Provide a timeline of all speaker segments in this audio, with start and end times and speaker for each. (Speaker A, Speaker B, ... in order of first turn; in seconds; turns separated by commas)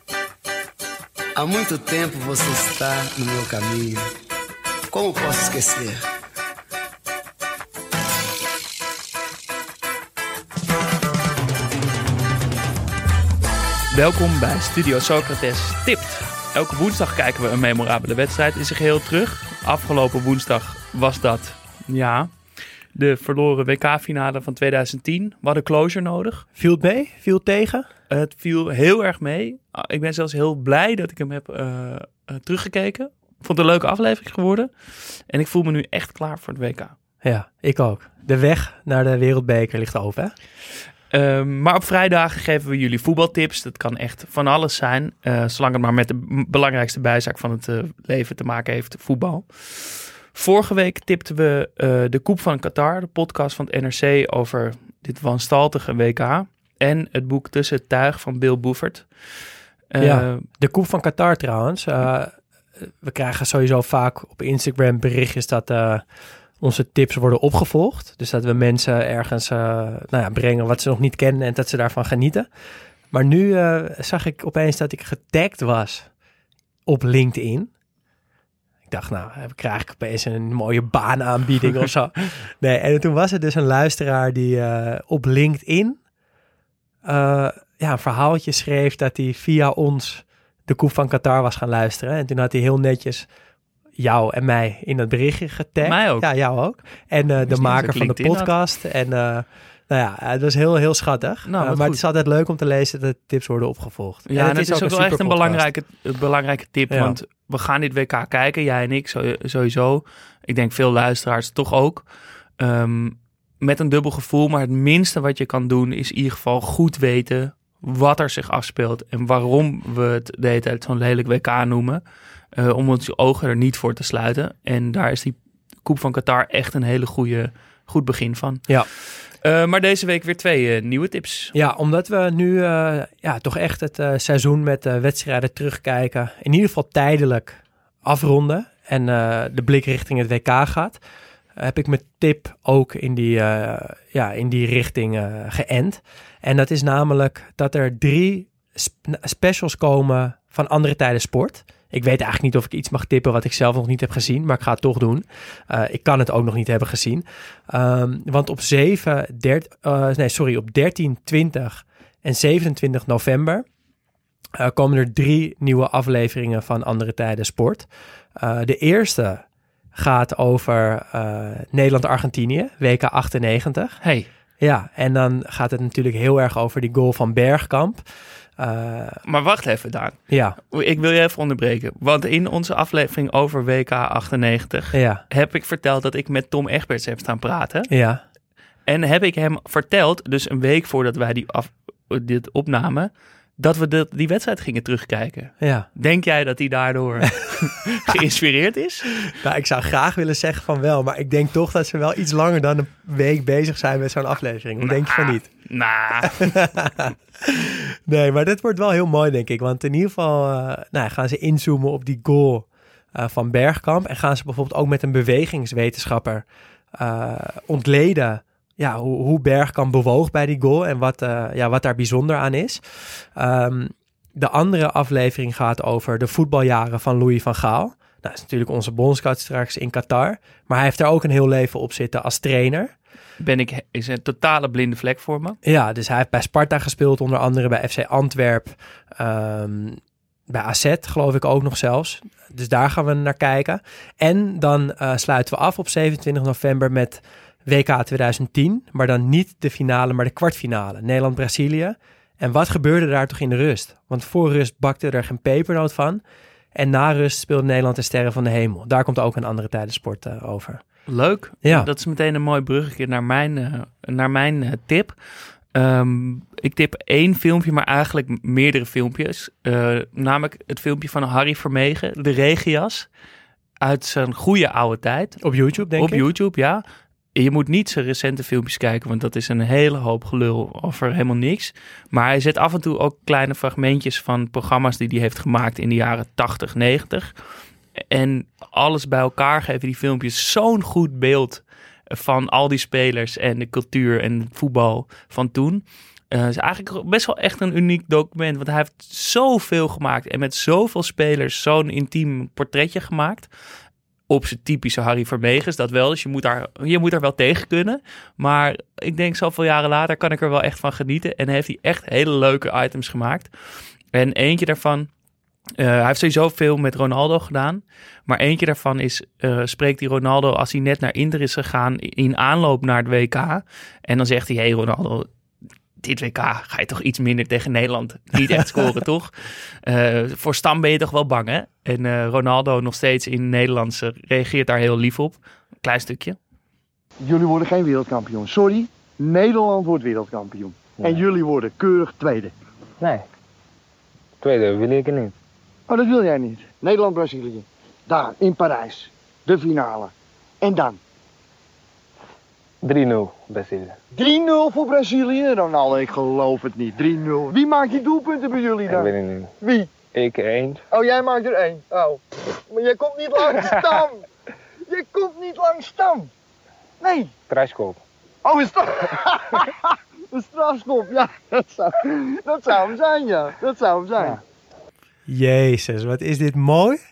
Speaker A: 1.4-4.0, Speaker A: 4.9-6.0, Speaker B: 13.9-22.3, Speaker B: 22.9-26.5, Speaker C: 26.6-27.9, Speaker B: 28.1-36.9, Speaker C: 37.2-40.3, Speaker B: 41.1-59.1, Speaker B: 59.9-60.5, Speaker C: 60.0-66.0, Speaker C: 66.6-72.5, Speaker C: 73.1-76.1, Speaker C: 76.9-77.7, Speaker C: 78.9-86.0, Speaker C: 87.0-93.3, Speaker C: 94.0-105.7, Speaker B: 95.8-96.3, Speaker B: 97.4-98.5, Speaker B: 101.5-102.0, Speaker B: 104.3-112.1, Speaker C: 106.9-107.2, Speaker B: 112.6-122.0, Speaker B: 122.5-131.5, Speaker C: 131.5-141.0, Speaker C: 141.6-163.7, Speaker C: 164.6-169.4, Speaker C: 169.9-174.0, Speaker B: 174.0-174.3, Speaker C: 174.6-178.0, Speaker C: 178.6-179.2, Speaker B: 179.2-187.9, Speaker C: 180.3-180.6, Speaker C: 184.9-185.2, Speaker C: 187.9-188.2, Speaker B: 188.9-199.2, Speaker C: 195.6-195.9, Speaker C: 199.4-205.5, Speaker B: 204.8-206.5, Speaker C: 206.2-216.4, Speaker C: 217.0-232.9, Speaker B: 233.4-235.6, Speaker C: 235.6-256.2, Speaker C: 256.7-260.8, Speaker B: 261.1-265.2, Speaker C: 261.6-261.9, Speaker B: 265.7-273.1, Speaker B: 273.8-275.4, Speaker C: 275.4-276.3, Speaker B: 275.9-276.8, Speaker B: 277.4-287.3, Speaker B: 288.0-303.5, Speaker B: 304.3-313.5, Speaker B: 314.1-315.1, Speaker B: 315.8-325.3, Speaker B: 326.0-336.4, Speaker D: 337.3-342.5, Speaker E: 341.0-341.2, Speaker E: 343.0-343.3, Speaker E: 344.4-345.3, Speaker D: 345.9-350.1, Speaker D: 350.7-351.0, Speaker E: 352.8-353.9, Speaker D: 354.2-359.0, Speaker E: 358.9-359.5, Speaker E: 360.1-360.8, Speaker D: 361.0-364.2, Speaker D: 364.9-366.3, Speaker D: 367.0-367.3, Speaker E: 367.5-368.0, Speaker D: 368.4-369.7, Speaker D: 370.3-374.3, Speaker C: 375.3-377.0